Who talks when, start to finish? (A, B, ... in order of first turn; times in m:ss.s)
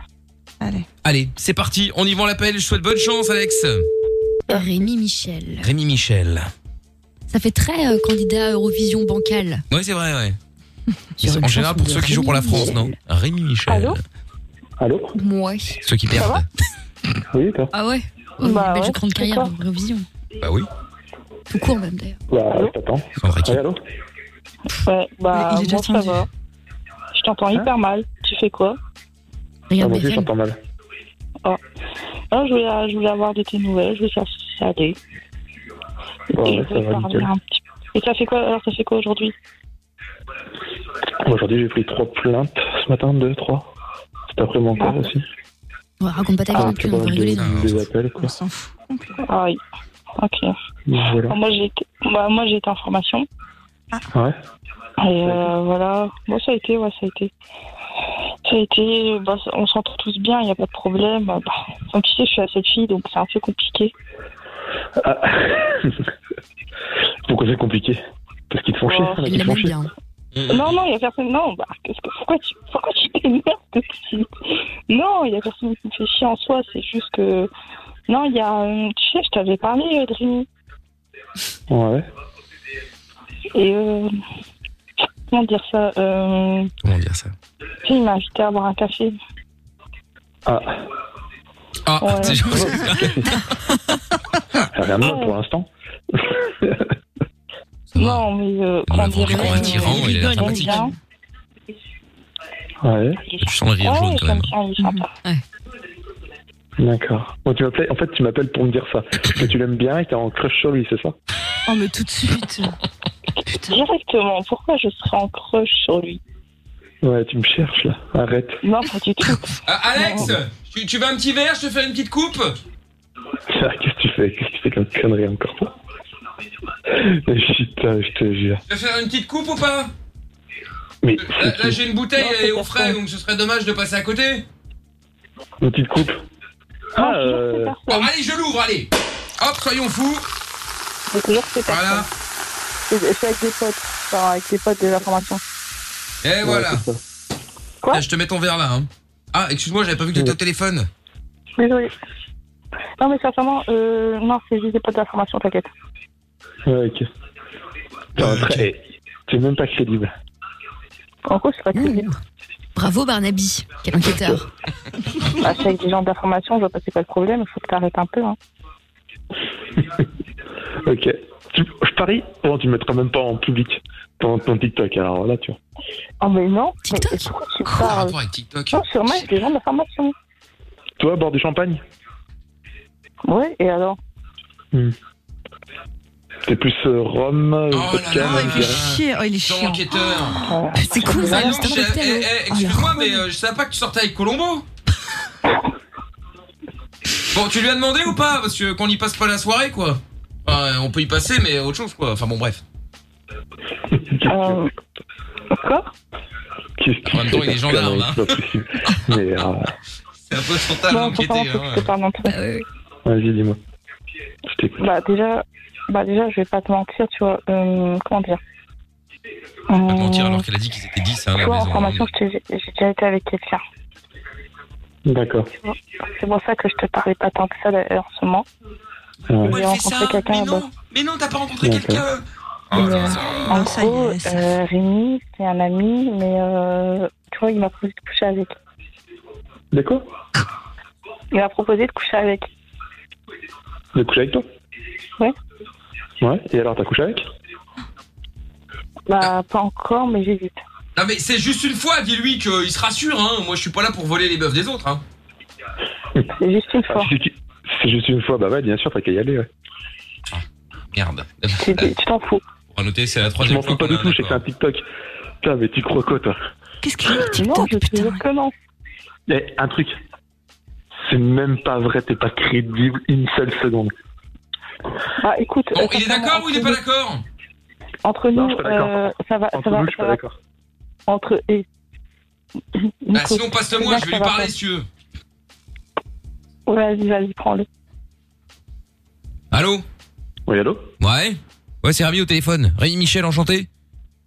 0:00.6-0:00.8 A
0:01.0-0:03.9 B
0:04.5-0:05.7 C
0:05.6-0:06.5 B
0:07.3-0:09.6 C
0:09.7-0:10.4 B
0:11.2-0:12.9 C
0:11.2-0:14.0 B
0:13.7-0:14.0 D
0:14.8-0:15.1 E
0:15.1-0:15.8 C
0:15.8-0:16.5 B
0:17.3-0:17.7 E
0:17.7-0:20.0 C
0:18.4-0:19.5 D
0:20.4-0:20.7 B
0:21.5-0:22.2 C
0:22.3-0:23.8 E
0:23.2-0:23.6 B
0:24.8-0:26.3 D
0:25.3-0:26.2 C
0:27.1-0:28.8 D
0:29.7-0:30.3 C
0:29.8-0:30.6 E
0:32.3-0:35.0 D
0:36.3-0:37.3 E
0:36.4-0:39.3 D
0:41.2-0:43.7 E
0:44.3-0:45.2 E
0:46.0-0:47.8 C
0:46.5-0:48.3 E
0:47.4-0:47.8 B
0:48.2-0:49.2 A
0:49.2-0:49.6 D
0:50.2-0:50.5 D
0:50.9-0:51.4 E
0:51.3-0:53.2 D
0:55.0-0:57.3 D
0:55.2-0:55.5 E
0:58.4-1:03.9 D
1:05.0-1:06.0 E
1:07.3-1:09.8 E
1:08.9-1:09.2 D
1:09.2-1:09.9 C
1:10.3-1:10.8 B
1:10.5-1:14.3 D
1:14.9-1:17.5 D
1:18.1-1:20.4 D
1:21.7-1:22.0 E
1:23.5-1:24.1 D
1:25.3-1:26.7 D
1:26.8-1:27.3 B
1:27.8-1:29.2 D
1:30.4-1:30.8 E
1:31.8-1:33.2 B
1:32.0-1:32.4 D
1:32.4-1:33.3 E
1:34.7-1:36.9 E
1:35.0-1:35.3 D
1:37.9-1:38.2 B
1:38.0-1:40.9 D
1:38.9-1:40.8 B
1:39.2-1:40.9 C
1:39.6-1:40.7 A
1:42.8-1:43.3 E
1:43.4-1:44.5 B
1:43.8-1:45.1 D
1:46.8-1:51.1 E
1:51.7-1:52.7 A
1:53.5-1:53.8 A
1:53.7-1:56.2 D
1:57.0-1:58.6 E
1:58.6-2:00.2 D
1:59.6-2:02.6 B
2:03.5-2:05.7 E
2:06.9-2:08.6 E
2:08.7-2:09.9 B
2:11.0-2:11.8 E
2:11.2-2:14.4 B
2:12.2-2:13.0 D
2:15.6-2:16.2 E
2:17.0-2:17.8 E
2:17.0-2:18.1 D
2:17.9-2:20.2 B
2:21.1-2:22.1 D
2:21.6-2:22.1 B
2:22.9-2:25.4 D
2:26.2-2:26.8 B
2:26.4-2:27.0 E
2:27.9-2:30.9 B
2:31.6-2:31.9 D
2:33.0-2:35.7 D
2:36.7-2:37.1 E
2:38.2-2:40.1 E
2:38.2-2:38.6 B
2:41.3-2:42.1 D
2:41.7-2:42.2 C
2:42.8-2:44.4 C
2:45.4-2:48.4 D
2:50.8-2:55.6 E
2:56.2-2:58.1 D
2:56.8-2:57.9 C
2:57.7-2:59.3 B
2:58.7-3:00.1 D
3:01.0-3:01.8 E
3:03.2-3:04.0 D
3:06.4-3:08.8 E
3:07.7-3:10.4 B
3:08.2-3:13.2 A
3:10.5-3:11.6 D
3:11.0-3:12.3 C
3:11.1-3:14.6 B
3:17.3-3:22.6 B
3:23.9-3:24.6 E
3:24.3-3:24.7 D
3:25.5-3:25.9 D
3:26.8-3:29.7 E
3:27.1-3:28.3 B
3:30.3-3:31.9 B
3:30.9-3:32.4 D
3:32.2-3:32.6 C
3:33.0-3:33.6 E
3:34.5-3:34.8 E
3:34.8-3:38.4 D
3:39.7-3:40.4 D
3:39.8-3:42.1 B
3:41.4-3:43.6 D
3:45.0-3:45.5 E
3:45.6-3:48.4 D
3:49.3-3:49.6 E
3:49.4-3:53.6 B
3:49.5-3:50.7 D
3:51.6-3:52.1 E
3:52.7-3:58.5 D
3:53.4-3:54.5 A
3:59.7-4:00.0 E
4:01.3-4:02.4 D
4:03.9-4:04.4 E
4:06.2-4:07.3 E
4:09.1-4:10.6 D
4:11.0-4:15.0 B
4:16.4-4:17.1 D
4:16.9-4:19.5 E
4:20.3-4:21.9 B
4:21.6-4:22.4 D
4:22.7-4:24.4 B
4:23.4-4:24.8 E
4:25.4-4:26.4 E
4:26.8-4:28.2 A
4:27.4-4:28.5 D
4:29.3-4:30.0 E
4:31.0-4:33.9 E
4:35.2-4:36.8 D
4:35.7-4:37.2 B
4:38.0-4:40.2 D
4:38.3-4:40.3 E
4:41.1-4:41.6 D
4:42.8-4:44.5 D
4:43.1-4:44.9 B
4:46.7-4:47.6 D
4:49.5-4:49.8 B
4:50.5-4:50.9 E
4:51.0-4:53.7 B